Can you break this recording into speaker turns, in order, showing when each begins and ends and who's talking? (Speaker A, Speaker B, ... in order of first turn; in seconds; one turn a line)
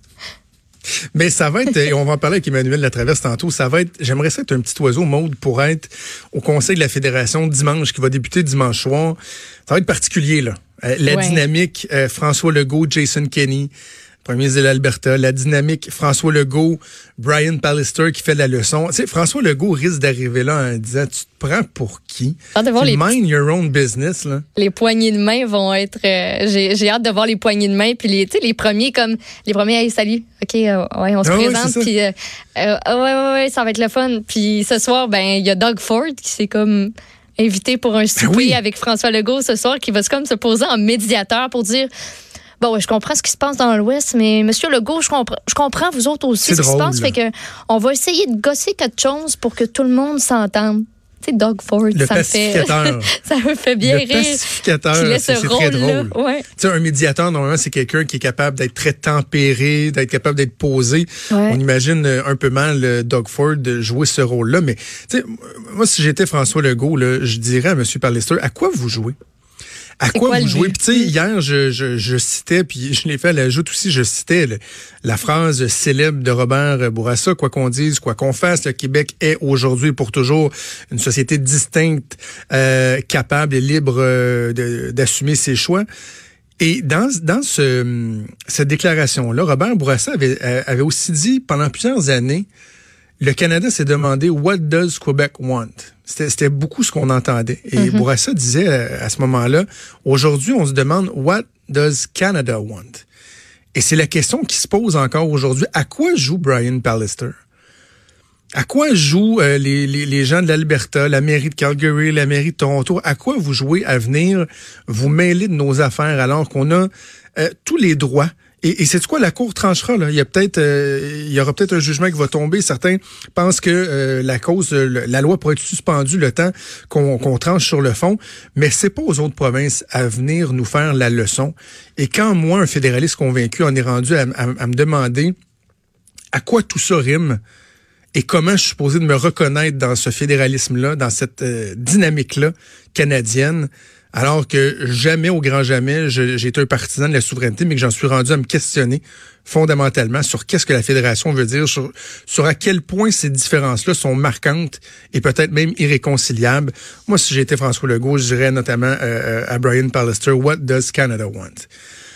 Speaker A: 1.1-13.7
Speaker B: 11.1-11.4
Speaker A: 14.2-24.4
Speaker B: 22.5-23.1
Speaker B: 24.6-41.9
Speaker A: 31.2-31.9
Speaker A: 38.2-38.6
Speaker B: 42.6-56.4
Speaker A: 46.4-47.1
Speaker A: 51.9-53.1
Speaker A: 53.8-69.1
Speaker B: 61.3-61.6
Speaker A: 70.0-85.8
Speaker B: 70.1-71.1
Speaker A: 86.6-92.5
Speaker A: 93.2-103.0
Speaker B: 97.8-98.0
Speaker A: 103.7-107.3
Speaker A: 108.5-135.3
Speaker A: 136.3-137.4
Speaker A: 138.1-161.7